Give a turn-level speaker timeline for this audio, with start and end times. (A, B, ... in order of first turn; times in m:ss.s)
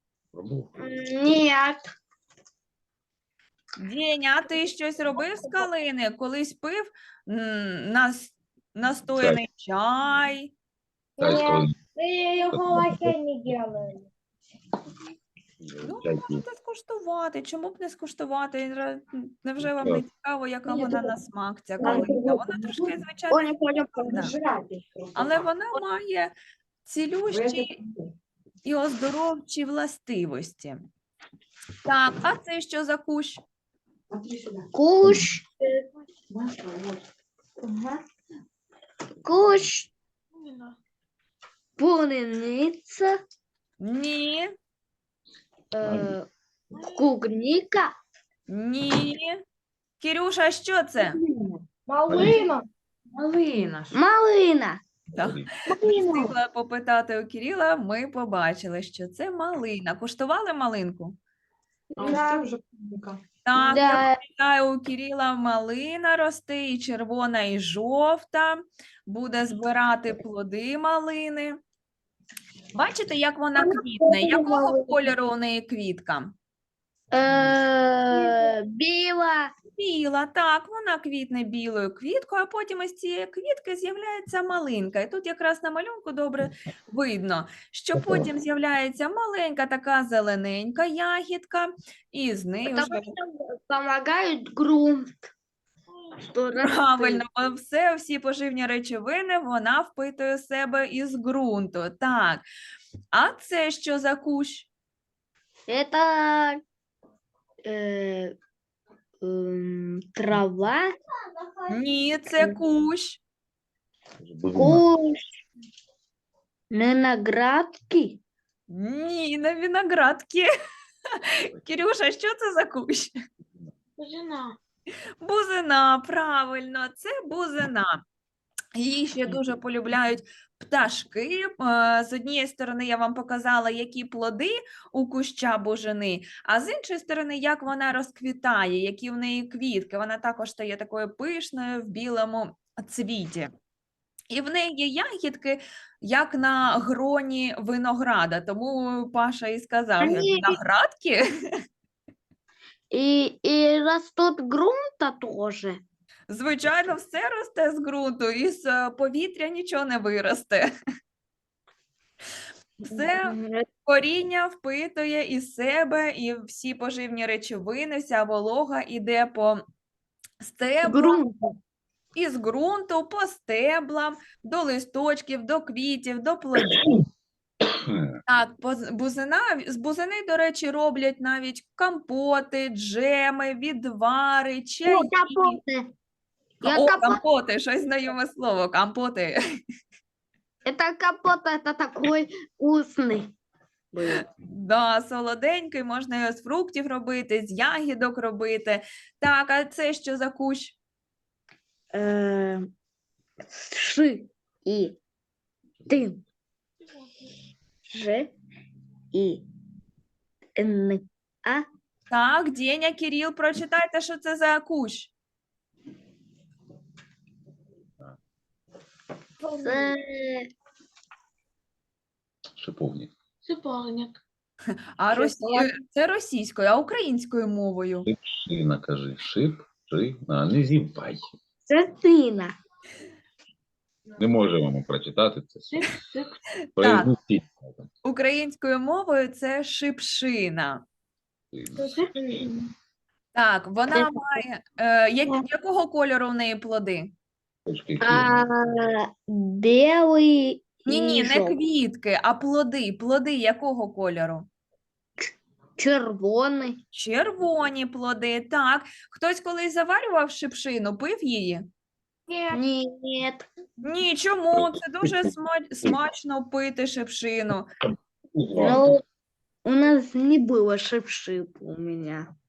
0:00.3-0:00.7 A
0:00.8-0:01.8 B
0:03.8-0:10.5 C
0:09.1-0:09.4 A
0:11.2-0:14.1 D
0:11.2-0:11.8 A
0:12.5-0:13.2 A
0:15.6-0:16.4 A
0:15.8-0:24.3 C
0:19.6-0:20.0 A
0:20.7-0:21.0 D
0:21.8-0:22.1 B
0:21.8-0:22.2 D
0:23.3-0:24.3 B
0:24.0-0:25.4 E
0:25.2-0:26.3 C
0:26.8-0:27.7 C
0:27.3-0:28.1 E
0:28.6-0:30.8 C
0:31.8-0:33.4 C
0:34.1-0:34.7 E
0:34.7-0:35.5 B
0:36.3-0:37.0 E
0:37.6-0:38.0 E
0:39.2-0:39.9 B
0:40.4-0:40.8 D
0:41.8-0:43.1 B
0:43.8-0:44.5 C
0:45.7-0:46.3 B
0:45.8-0:46.1 A
0:46.9-0:48.0 B
0:48.5-0:49.4 C
0:50.0-0:51.2 C
0:51.9-0:52.7 D
0:52.1-0:52.4 A
0:53.1-0:54.0 E
0:53.9-0:54.8 B
0:55.2-0:55.5 A
0:55.2-1:01.2 C
0:55.7-0:56.3 B
1:01.9-1:02.5 D
1:02.0-1:03.2 E
1:03.4-1:11.6 C
1:03.6-1:04.2 B
1:12.7-1:16.4 C
1:13.6-1:15.0 B
1:17.1-1:19.5 B
1:18.2-1:18.5 D
1:19.8-1:33.1 C
1:28.0-1:28.3 A
1:32.6-1:35.2 B
1:36.3-1:37.2 B
1:36.6-1:42.4 C
1:43.1-1:44.7 C
1:45.7-1:46.6 B
1:47.6-1:48.4 B
1:49.2-1:50.9 B
1:51.7-1:53.2 C
1:54.2-1:54.8 A
1:54.5-1:55.4 B
1:56.7-1:58.2 B
1:58.7-2:00.5 C
2:01.5-2:03.1 C
2:04.0-2:04.6 D
2:05.2-2:08.0 C
2:08.8-2:23.5 C
2:24.3-2:31.2 C
2:30.0-2:30.6 B
2:32.9-2:35.8 B
2:36.3-2:40.7 C
2:42.8-2:49.6 C
2:42.9-2:43.7 B
2:50.4-2:51.2 C
2:50.8-2:51.6 B
2:52.2-2:56.8 C
2:57.8-2:58.2 A
2:58.3-3:05.6 C
3:04.8-3:05.9 B
3:06.6-3:07.2 B
3:06.7-3:09.4 C
3:10.6-3:13.4 B
3:13.9-3:14.2 B
3:14.4-3:20.8 C
3:21.9-3:22.7 B
3:23.5-3:25.0 B
3:25.9-3:26.2 B
3:27.9-3:28.3 B
3:29.1-3:29.4 B
3:30.6-3:31.6 B
3:32.1-3:35.1 C
3:39.4-3:40.0 D
3:39.6-3:40.5 B
3:42.6-3:43.1 A
3:43.5-3:44.1 D
3:45.0-3:48.1 C
3:45.1-3:45.7 B
3:48.1-3:51.3 A
3:51.7-3:52.5 B
3:54.2-3:55.9 A
3:55.7-3:56.3 D
3:56.8-3:57.9 A
3:56.8-3:57.1 C
3:58.0-4:00.8 C
4:01.5-4:02.0 A
4:01.8-4:02.7 D
4:03.3-4:07.1 C
4:03.9-4:04.4 B
4:07.7-4:08.5 A
4:08.0-4:11.6 B
4:10.9-4:14.5 C
4:15.2-4:16.8 B
4:16.9-4:21.6 C
4:22.3-4:22.6 D
4:22.5-4:23.5 B
4:23.8-4:27.7 C
4:24.5-4:25.3 A
4:28.3-4:29.0 A
4:28.6-4:29.0 B
4:29.6-4:32.3 B